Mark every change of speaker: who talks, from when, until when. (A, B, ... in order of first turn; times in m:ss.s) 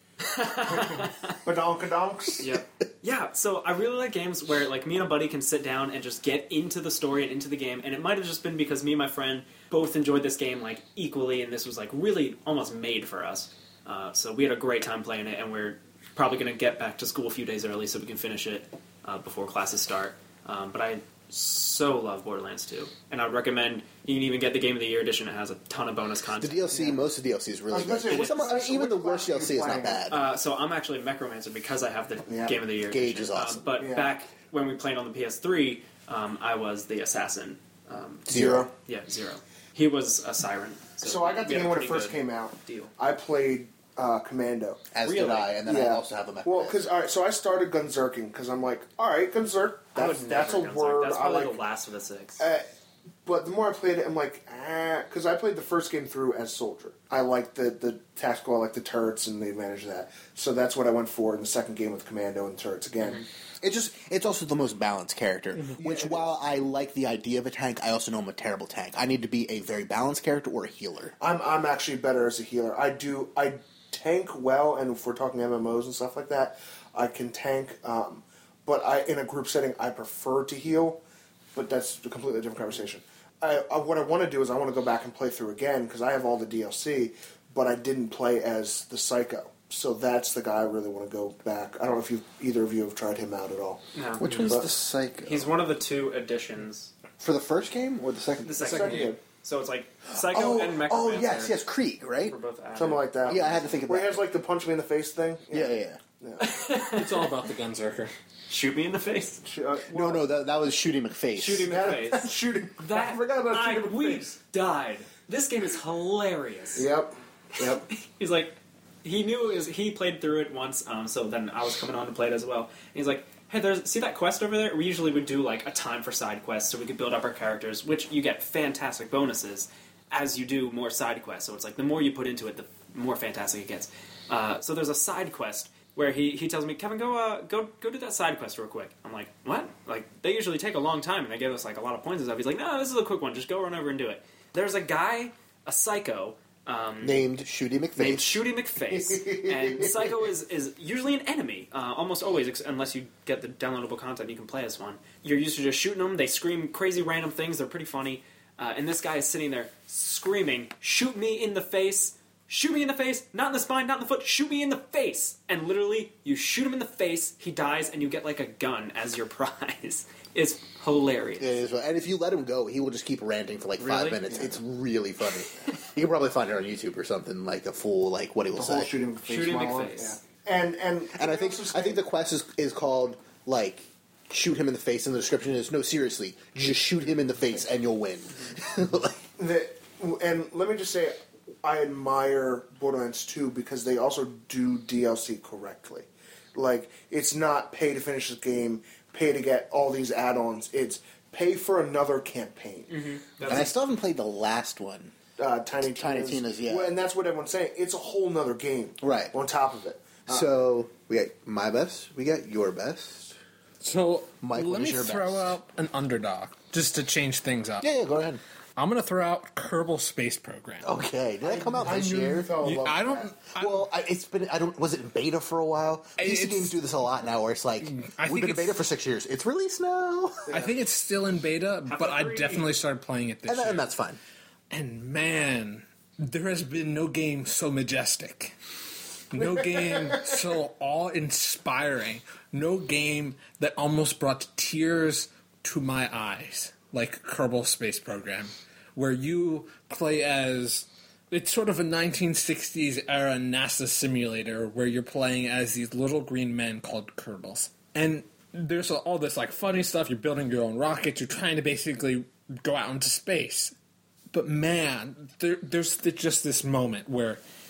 0:00.2-0:01.3 A
0:01.4-0:02.6 B
0:02.4-0:26.8 A
0:26.4-0:30.3 C
0:26.7-0:27.0 B
0:27.7-0:30.0 B
0:30.1-0:42.9 A
0:32.3-0:32.6 B
0:32.8-0:33.7 C
0:33.8-0:34.1 B
0:38.3-0:38.7 C
0:38.3-0:38.7 B
0:41.0-0:44.8 B
0:44.9-0:46.9 C
0:45.0-0:45.5 A
0:45.6-0:51.6 B
0:49.9-0:52.4 A
0:52.4-0:52.6 B
0:53.2-1:03.2 B
1:03.6-1:11.1 C
1:05.8-1:06.2 B
1:11.2-1:21.0 B
1:21.5-1:33.8 B
1:33.9-1:34.6 A
1:34.2-1:35.5 C
1:34.4-1:34.7 B
1:35.2-1:36.9 A
1:37.2-1:38.8 C
1:38.4-1:41.6 A
1:38.6-1:39.2 B
1:38.6-1:39.1 D
1:40.1-1:42.4 C
1:42.2-1:43.5 A
1:42.8-1:46.5 B
1:43.2-1:44.2 C
1:45.5-1:46.0 C
1:46.4-1:47.3 A
1:46.8-1:48.1 D
1:48.5-1:49.4 A
1:49.4-1:50.2 B
1:49.9-1:51.7 C
1:51.3-1:56.9 A
1:51.7-1:54.3 B
1:56.8-1:57.9 B
1:57.6-2:27.3 A
2:27.0-2:28.4 C
2:28.0-2:51.5 A
2:29.0-2:29.9 B
2:51.4-2:59.0 C
2:53.8-2:54.4 A
2:54.3-2:54.6 B
2:58.5-3:02.0 B
2:59.2-3:00.2 A
3:01.1-3:09.2 C
3:09.4-3:23.7 B
3:22.9-3:23.7 A
3:23.4-3:25.1 C
3:25.4-3:30.5 B
3:25.8-3:26.9 C
3:29.0-3:29.3 C
3:30.3-3:33.4 C
3:33.8-3:37.9 D
3:34.4-3:35.5 C
3:37.8-3:38.4 C
3:38.8-3:40.9 D
3:40.8-3:42.6 C
3:41.4-3:43.3 B
3:42.6-3:43.9 D
3:43.5-3:50.5 C
3:46.2-3:46.8 D
3:47.8-3:48.8 D
3:50.5-3:53.9 D
3:51.9-3:52.6 A
3:53.5-3:54.2 C
3:54.7-3:58.6 D
3:59.3-4:23.7 D
4:24.3-4:27.4 D